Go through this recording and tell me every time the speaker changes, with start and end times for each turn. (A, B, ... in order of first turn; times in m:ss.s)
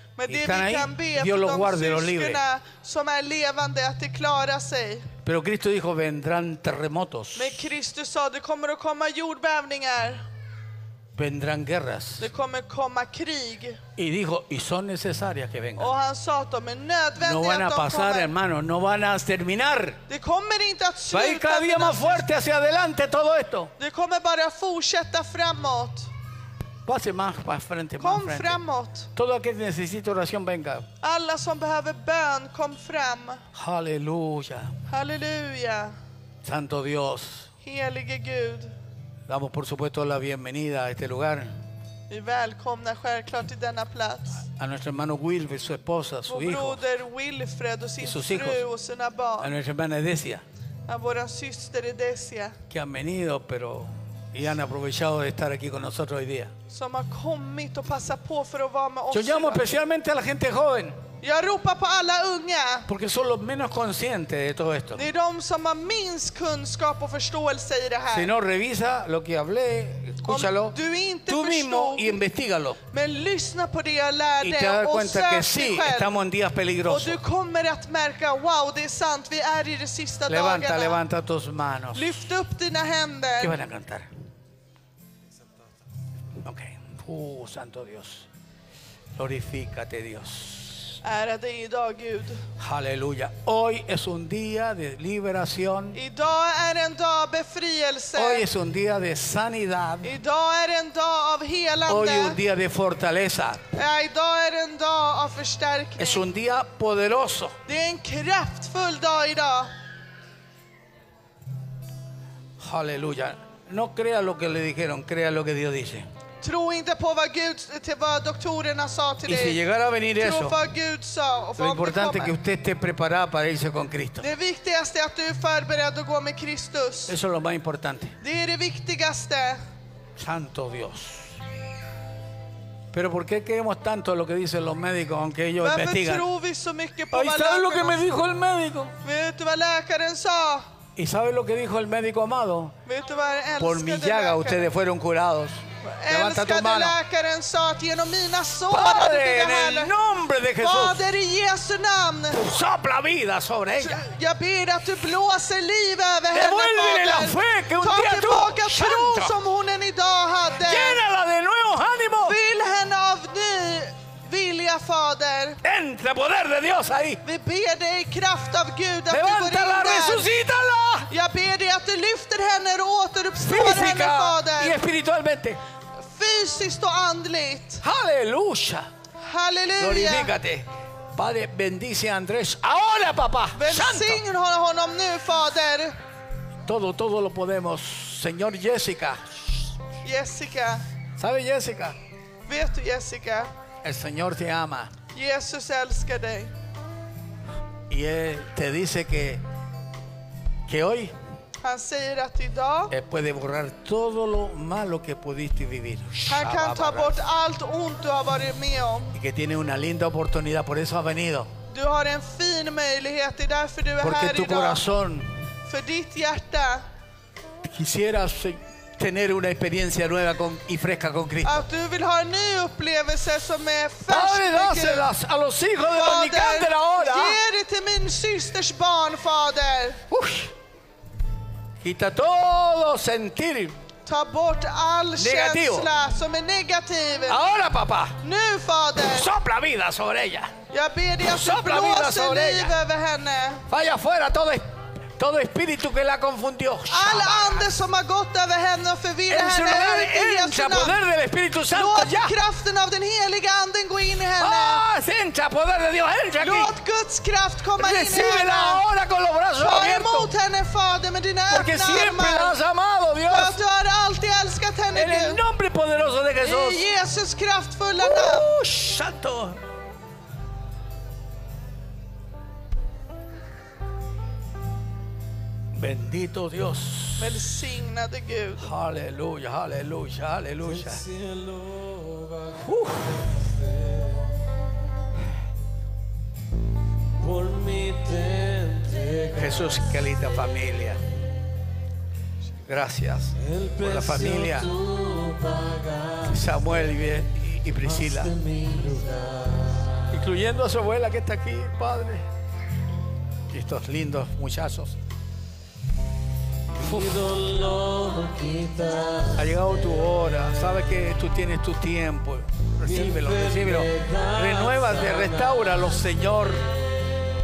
0:00.2-0:05.1 A
0:00.3-0:02.4 B
0:05.2-0:07.6 B
0:07.3-0:10.2 A
0:11.1-0:12.3 B
0:12.2-0:13.8 A
0:14.0-0:15.9 B
0:15.8-0:18.3 A
0:17.2-0:20.0 B
0:20.1-0:22.3 A
0:21.1-0:23.7 B
0:23.8-0:26.1 A
0:26.8-0:28.6 B
0:28.0-0:29.1 A
0:29.1-0:30.9 B
0:31.0-0:33.4 A
0:33.5-0:34.7 B
0:34.9-0:35.9 A
0:36.4-0:37.5 B
0:37.6-0:38.7 A
0:39.3-0:41.6 B
0:42.1-0:44.4 A
0:44.5-0:46.8 B
0:46.3-0:49.5 A
0:48.0-0:48.6 B
0:49.4-0:50.4 B
0:50.9-0:52.6 A
0:52.7-0:56.5 B
0:56.7-0:59.7 A
0:59.1-1:01.0 B
1:01.2-1:02.9 A
1:02.9-1:05.0 B
1:04.9-1:08.3 A
1:08.1-1:12.8 B
1:10.2-1:12.2 A
1:12.9-1:16.2 A
1:14.4-1:17.2 B
1:16.8-1:21.0 A
1:20.3-1:22.2 B
1:21.9-1:23.5 A
1:23.4-1:24.1 B
1:26.4-1:28.3 B
1:29.2-1:31.0 B
1:31.0-1:32.4 A
1:32.6-1:36.0 B
1:35.9-1:38.4 A
1:38.1-1:40.1 B
1:40.0-1:42.4 A
1:41.9-1:43.6 B
1:43.7-1:46.2 A
1:46.0-1:47.6 B
1:47.6-1:49.7 A
1:52.6-1:56.1 B
1:56.4-1:59.6 A
1:59.2-2:00.6 B
2:00.2-2:02.3 A
2:01.6-2:04.2 B
2:04.2-2:07.1 A
2:07.1-2:08.2 B
2:08.2-2:09.6 A
2:10.2-2:11.4 B
2:12.9-2:16.3 B
2:15.6-2:18.0 A
2:17.1-2:19.0 B
2:19.0-2:20.7 A
2:21.0-2:22.7 B
2:22.8-2:24.7 A
2:23.6-2:27.0 B
2:25.8-2:29.9 A
2:28.7-2:31.0 B
2:30.6-2:32.4 A
2:32.3-2:34.0 B
2:33.8-2:41.0 A
2:36.3-2:39.3 B
2:40.6-2:42.4 B
2:42.2-2:45.6 A
2:45.6-2:47.2 B
2:47.2-2:50.3 A
2:49.1-2:51.1 B
2:51.1-2:54.8 A
2:53.4-2:55.6 B
2:56.0-2:57.8 A
2:57.8-2:58.9 B
2:59.2-3:00.3 A
2:59.8-3:04.2 B
3:03.5-3:06.0 A
3:06.6-3:09.6 B
3:10.0-3:10.8 A
3:11.2-3:12.0 B
3:12.5-3:13.5 A
3:13.8-3:14.9 B
3:15.1-3:16.5 A
3:17.9-3:19.4 B
3:20.7-3:21.1 B
3:21.6-3:22.9 A
3:22.9-3:27.2 B
3:26.3-3:29.2 A
3:29.1-3:31.5 B
3:31.7-3:34.8 A
3:34.0-3:35.5 B
3:35.6-3:36.8 A
3:37.6-3:41.6 B
3:41.4-3:45.1 A
3:44.1-3:47.4 B
3:45.9-3:50.0 A
3:50.1-3:50.5 B
3:51.8-3:53.8 B
3:54.0-3:57.4 A
3:55.2-3:55.9 B
3:57.3-3:58.2 B
3:58.2-3:59.3 A
3:59.0-4:00.5 B
4:00.7-4:03.6 A
4:01.2-4:02.7 B
4:03.7-4:04.6 B
4:05.2-4:07.7 B
4:06.9-4:11.0 A
4:09.3-4:12.4 B
4:11.7-4:14.8 A
4:14.4-4:16.7 B
4:16.4-4:18.8 A
4:17.8-4:20.3 B
4:19.6-4:22.6 A
4:21.5-4:23.6 B
4:23.3-4:25.4 A
4:24.9-4:26.9 B
4:26.4-4:28.6 A
4:28.0-4:29.6 B
4:35.7-4:37.4 B
4:37.2-4:38.7 A
4:38.6-4:41.0 B
4:40.7-4:44.2 C
4:42.6-4:43.3 B
4:47.2-4:49.8 C
4:49.3-4:51.0 B
4:52.6-4:54.7 B
4:53.4-4:56.4 C
4:56.3-4:58.4 B
4:58.0-4:59.8 C
5:00.1-5:02.2 B
5:03.5-5:05.0 B
5:06.7-5:09.5 C
5:06.8-5:07.3 B
5:09.4-5:16.7 B
5:12.8-5:15.8 C